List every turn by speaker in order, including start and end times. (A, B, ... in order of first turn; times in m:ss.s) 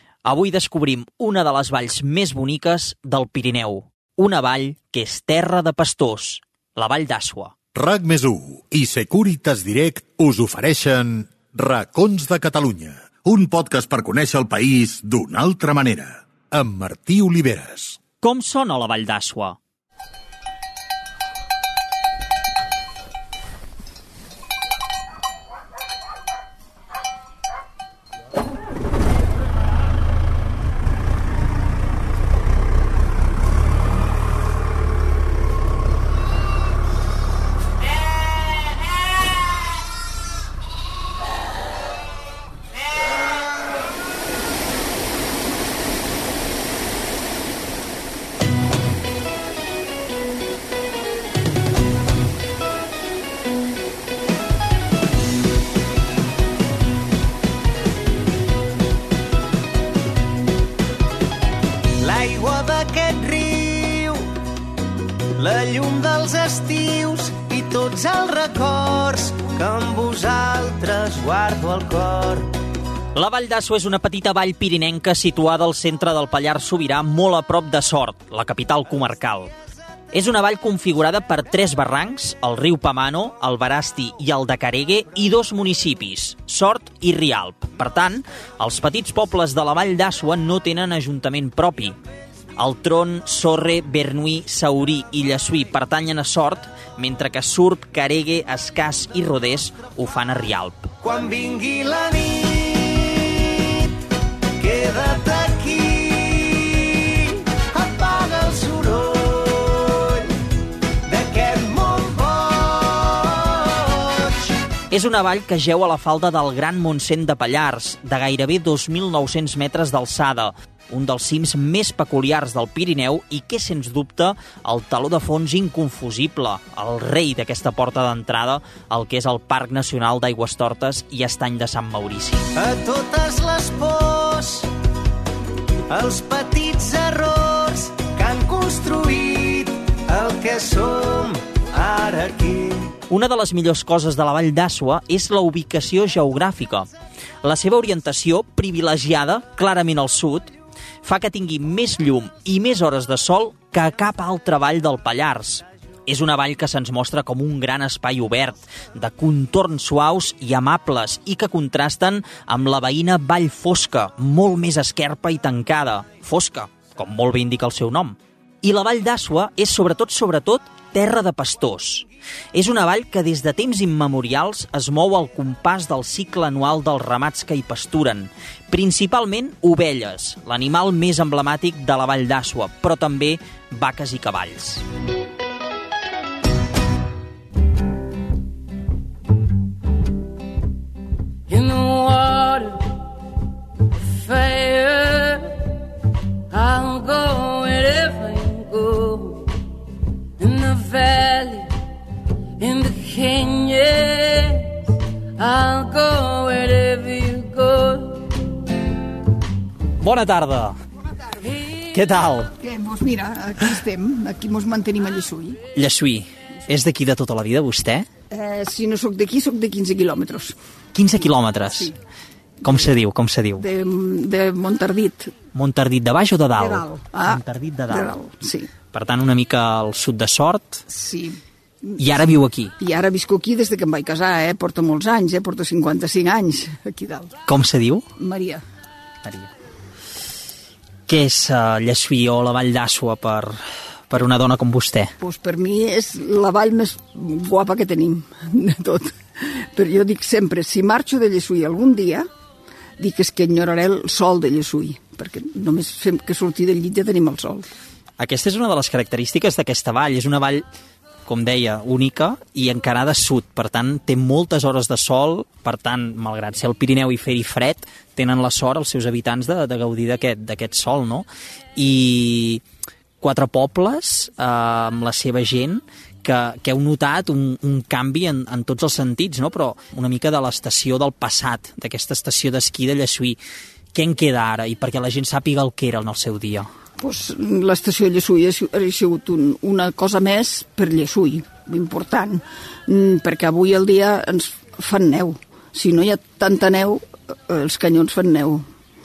0:00.2-0:07.5 A
0:07.7-0:18.0 B
0:18.2-0:19.6 A
1:02.0-1:04.3 C
1:05.4-1:12.5 C
1:13.1-1:19.5 A
1:20.1-1:31.9 A
1:32.6-1:40.9 A
1:41.0-1:43.5 C
1:44.6-1:50.3 C
1:51.1-1:54.3 C
1:54.9-2:12.4 A
2:12.6-2:14.7 C
2:15.9-2:22.9 C
2:23.1-2:26.9 A
2:27.4-2:30.5 A
2:31.0-3:04.8 A
3:11.5-3:12.9 D
3:14.0-3:15.6 D
3:16.5-3:19.5 D
3:20.4-3:21.7 D
3:22.6-3:24.8 D
3:25.4-3:28.3 D
3:30.0-3:30.8 A
3:31.9-3:32.5 A
3:32.6-3:35.6 E
3:35.8-3:38.1 A
3:38.3-3:40.6 E
3:40.9-3:41.9 A
3:41.6-3:42.0 E
3:42.6-3:43.6 A
3:43.6-3:45.3 E
3:45.5-3:48.1 A
3:46.6-3:48.7 E
3:48.9-3:50.8 A
3:50.9-3:52.1 E
3:52.0-3:52.7 A
3:52.8-3:57.4 E
3:57.5-3:58.0 A
3:58.2-3:58.6 E
4:01.1-4:05.1 A
4:05.2-4:12.3 E
4:13.0-4:17.7 E
4:18.2-4:20.6 A
4:21.2-4:32.6 A
4:33.2-4:43.4 A
4:43.9-4:46.7 A
4:47.0-4:58.6 E